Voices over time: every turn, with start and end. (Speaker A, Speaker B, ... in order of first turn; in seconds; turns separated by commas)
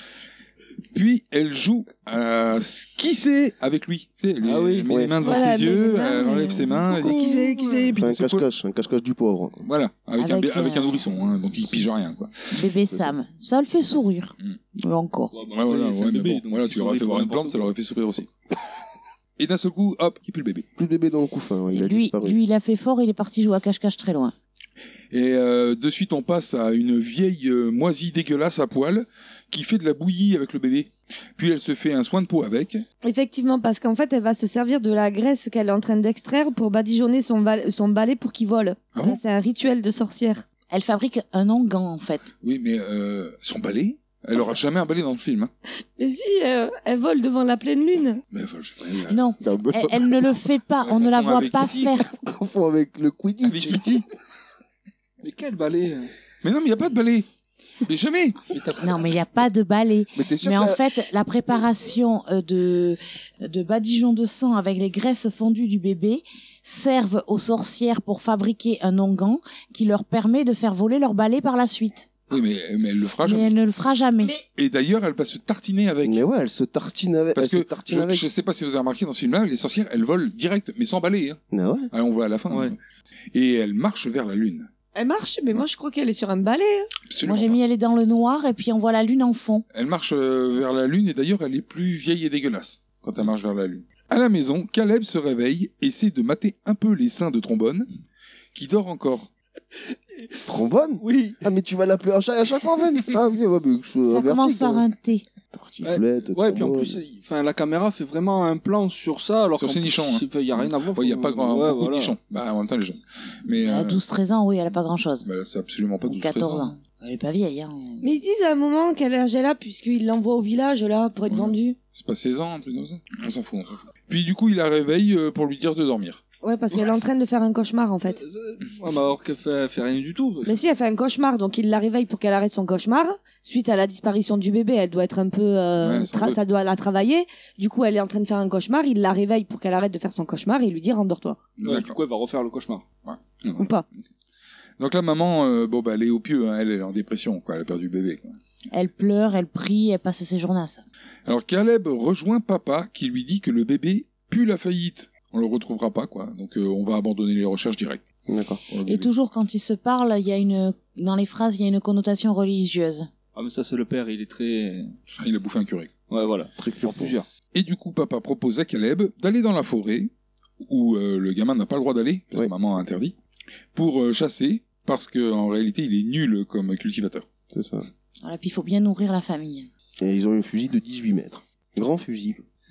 Speaker A: 0.9-8.5, Speaker B: 4.4-4.9, Speaker C: 4.9-5.1, Speaker D: 5.2-7.5, Speaker B: 6.9-8.0, Speaker C: 8.0-9.7, Speaker A: 9.7-12.5, Speaker E: 10.2-11.1, Speaker E: 12.5-15.3, Speaker B: 15.3-17.7, Speaker A: 15.5-18.3, Speaker A: 19.4-20.7, Speaker C: 20.8-22.4, Speaker E: 21.7-24.4, Speaker A: 25.1-32.8, Speaker D: 33.0-40.5, Speaker A: 39.0-39.2, Speaker E: 40.7-42.3, Speaker A: 42.4-45.5, Speaker D: 46.0-48.2, Speaker A: 48.3-49.2, Speaker E: 49.1-52.1, Speaker C: 49.4-50.3, Speaker A: 50.8-52.0, Speaker C: 52.1-54.0, Speaker A: 53.4-54.1, Speaker B: 55.2-56.1, Speaker A: 56.4-57.3, Speaker A: 57.8-58.5, Speaker E: 58.7-72.1, Speaker C: 60.2-60.8, Speaker A: 72.3-73.6, Speaker E: 73.2-74.4, Speaker A: 74.5-76.2, Speaker C: 76.0-78.3, Speaker A: 77.3-81.4, Speaker C: 81.5-81.9, Speaker A: 81.9-82.8, Speaker B: 82.5-82.8, Speaker A: 83.3-84.7, Speaker D: 85.0-86.9, Speaker A: 87.1-87.6, Speaker E: 87.2-89.7, Speaker A: 89.7-97.9, Speaker A: 98.5-99.3, Speaker C: 100.5-104.9, Speaker B: 101.0-101.4, Speaker E: 104.1-105.3, Speaker C: 105.5-107.0, Speaker B: 105.8-112.2, Speaker A: 109.6-114.0, Speaker E: 113.6-115.3, Speaker A: 115.2-116.7, Speaker E: 116.0-118.1, Speaker D: 118.0-121.8, Speaker A: 121.3-126.2, Speaker D: 126.4-128.2, Speaker B: 128.1-130.6, Speaker D: 130.5-141.4, Speaker A: 135.8-136.4, Speaker A: 141.6-142.0, Speaker B: 141.6-142.9, Speaker A: 143.1-143.7, Speaker D: 143.6-143.8, Speaker A: 144.8-148.4, Speaker E: 148.7-150.8, Speaker A: 151.3-158.0, Speaker C: 158.3-158.6, Speaker A: 158.7-159.1, Speaker E: 158.8-163.1, Speaker B: 163.3-164.9, Speaker A: 165.2-165.9, Speaker B: 166.1-167.3, Speaker C: 166.6-167.2, Speaker A: 167.5-173.1, Speaker A: 173.8-177.3, Speaker C: 177.5-177.9, Speaker E: 178.2-179.7, Speaker C: 180.0-182.4